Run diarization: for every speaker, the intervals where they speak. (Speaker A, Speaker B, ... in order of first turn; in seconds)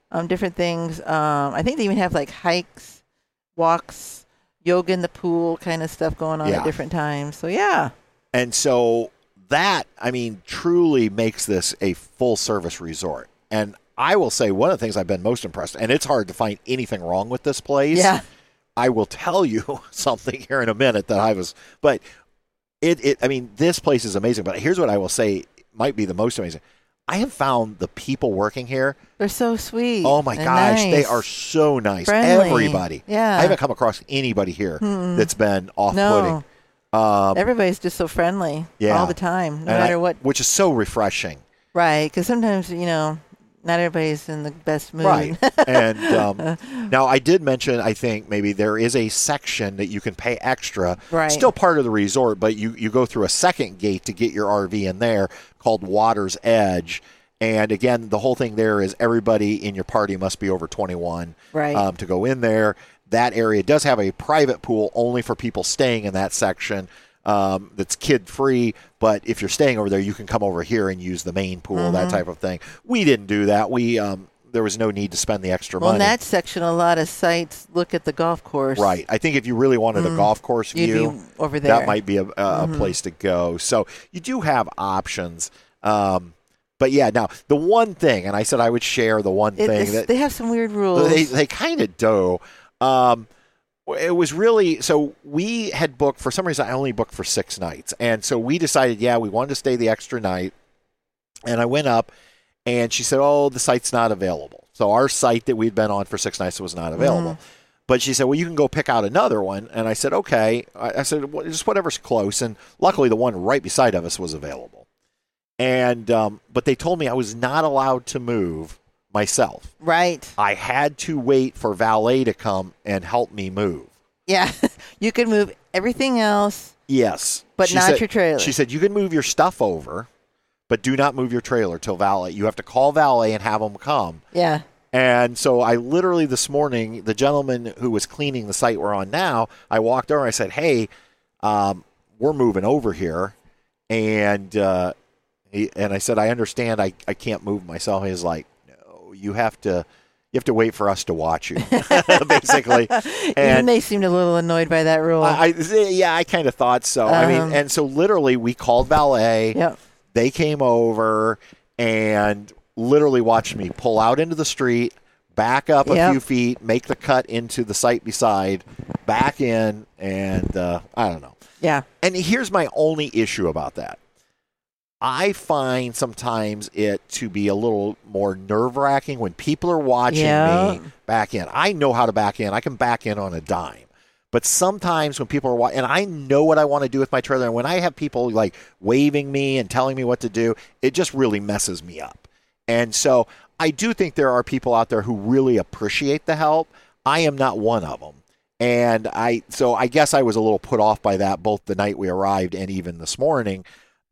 Speaker A: 0.1-3.0, 3.6-7.9, 17.9-18.2, 29.2-31.3, 32.1-33.6, 34.8-35.3, 35.9-36.4, 37.4-40.2, 41.7-46.9, 51.1-51.5, 61.5-61.9, 71.7-72.2, 75.8-79.0, 80.0-82.0, 82.5-83.0, 89.6-91.3, 107.0-107.4, 119.8-120.4, 124.3-126.7, 127.6-128.6, 134.3-134.7, 151.7-155.4, 157.1-157.6, 165.9-166.2, 171.6-171.9, 180.1-180.9
Speaker B: 6.4-6.7, 8.3-18.1, 18.8-22.0, 22.8-29.0, 30.0-36.4, 36.9-37.4, 38.8-41.4, 45.0-76.1, 78.8-81.2, 81.7-90.1, 90.9-93.3, 93.9-100.5, 101.5-102.1, 102.7-114.8, 115.6-119.7, 120.4-123.9, 126.9-130.1, 130.7-134.2, 134.9-140.9, 141.4-143.3, 143.9-144.9, 145.5-153.7, 155.2-159.6, 160.1-171.4, 172.0-174.0, 175.0-203.6